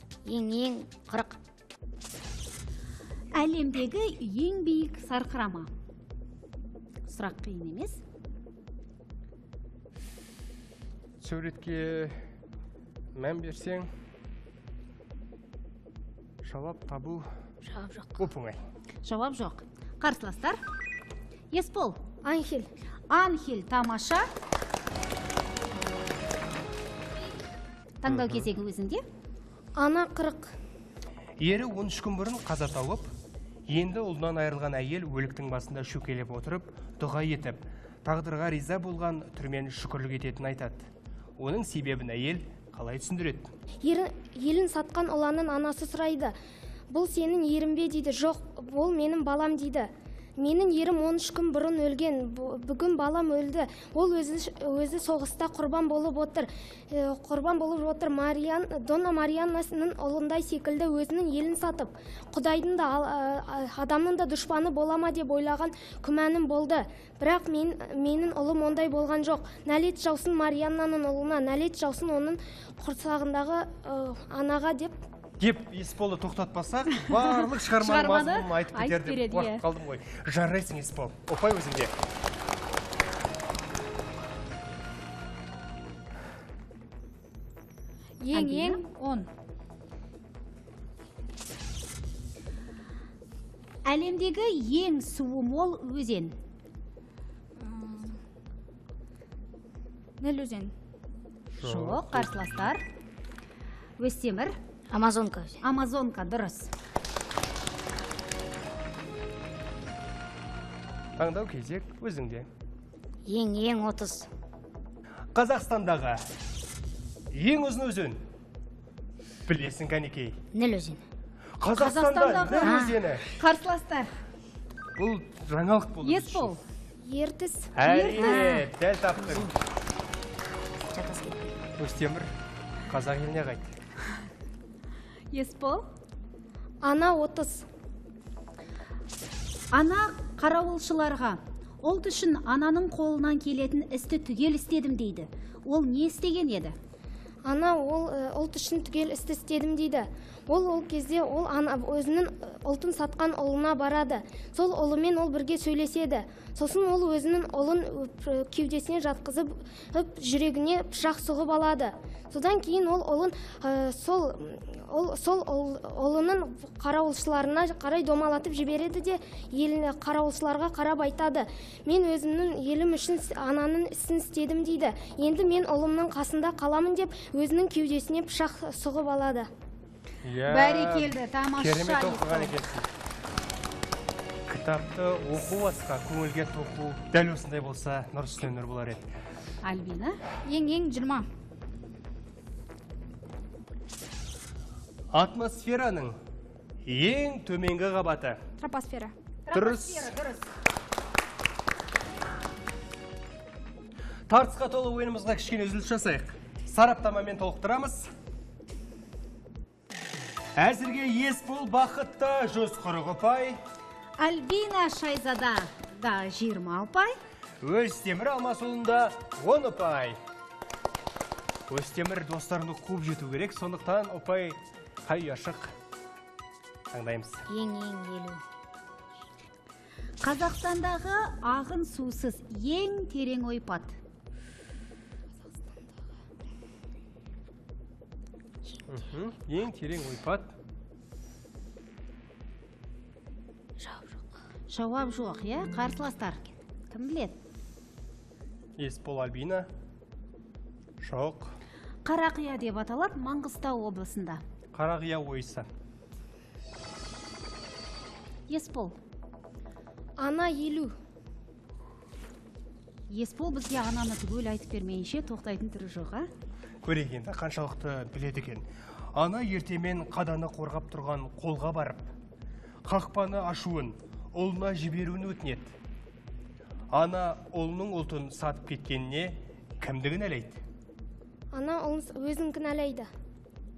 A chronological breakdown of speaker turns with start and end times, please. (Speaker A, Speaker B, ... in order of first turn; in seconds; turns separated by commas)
Speaker A: 0.3-1.4, Speaker B: 3.4-5.7, Speaker B: 7.1-8.0, Speaker C: 11.2-12.2, Speaker C: 13.2-13.9, Speaker C: 16.4-17.3, Speaker C: 18.2-18.6, Speaker B: 19.0-20.6, Speaker B: 21.5-22.0, Speaker D: 22.2-22.7, Speaker B: 23.1-24.3, Speaker B: 28.0-29.1, Speaker C: 28.1-28.4, Speaker D: 29.8-30.5, Speaker C: 31.4-33.1, Speaker C: 33.7-43.5, Speaker D: 43.8-46.4, Speaker D: 46.9-75.0, Speaker C: 75.4-81.9, Speaker B: 77.8-79.6, Speaker E: 88.2-89.3, Speaker B: 88.3-88.8, Speaker B: 93.8-96.4, Speaker E: 97.6-98.2, Speaker E: 100.2-100.7, Speaker C: 101.6-102.5, Speaker B: 101.6-102.8, Speaker B: 104.0-104.6, Speaker A: 104.9-105.6, Speaker B: 105.6-106.7, Speaker C: 111.2-112.5, Speaker A: 113.2-114.3, Speaker C: 115.3-116.2, Speaker C: 117.3-118.2, Speaker C: 119.5-120.4, Speaker A: 120.5-121.0, Speaker C: 121.6-123.3, Speaker B: 121.8-124.1, Speaker A: 122.6-123.0, Speaker C: 125.0-126.5, Speaker B: 126.0-126.6, Speaker D: 127.0-127.8, Speaker C: 127.7-129.5, Speaker B: 127.8-128.6, Speaker A: 128.3-128.5, Speaker A: 130.8-131.6, Speaker C: 131.8-132.3, Speaker C: 132.9-133.8, Speaker B: 135.3-135.9, Speaker D: 136.8-137.7, Speaker B: 139.7-146.8, Speaker D: 147.4-179.5, Speaker C: 180.2-182.9, Speaker B: 180.5-182.5, Speaker C: 184.5-189.1, Speaker B: 189.6-190.2, Speaker E: 190.5-191.3, Speaker C: 195.1-196.2, Speaker C: 196.8-198.4, Speaker E: 198.6-199.1, Speaker B: 199.5-200.5, Speaker C: 199.5-200.1, Speaker C: 204.3-208.1, Speaker C: 210.6-213.6, Speaker B: 214.2-217.2, Speaker C: 217.6-220.2, Speaker C: 221.7-225.8, Speaker C: 226.9-227.5, Speaker A: 227.5-228.4, Speaker B: 230.2-234.0, Speaker C: 238.9-240.5, Speaker B: 244.7-247.4, Speaker C: 248.8-249.7, Speaker C: 251.0-251.5, Speaker B: 252.1-254.4, Speaker C: 254.7-255.7, Speaker B: 258.5-259.0, Speaker D: 260.2-260.9, Speaker B: 263.1-266.3, Speaker C: 266.8-272.1, Speaker C: 272.9-275.8, Speaker C: 276.9-280.6, Speaker D: 281.5-283.1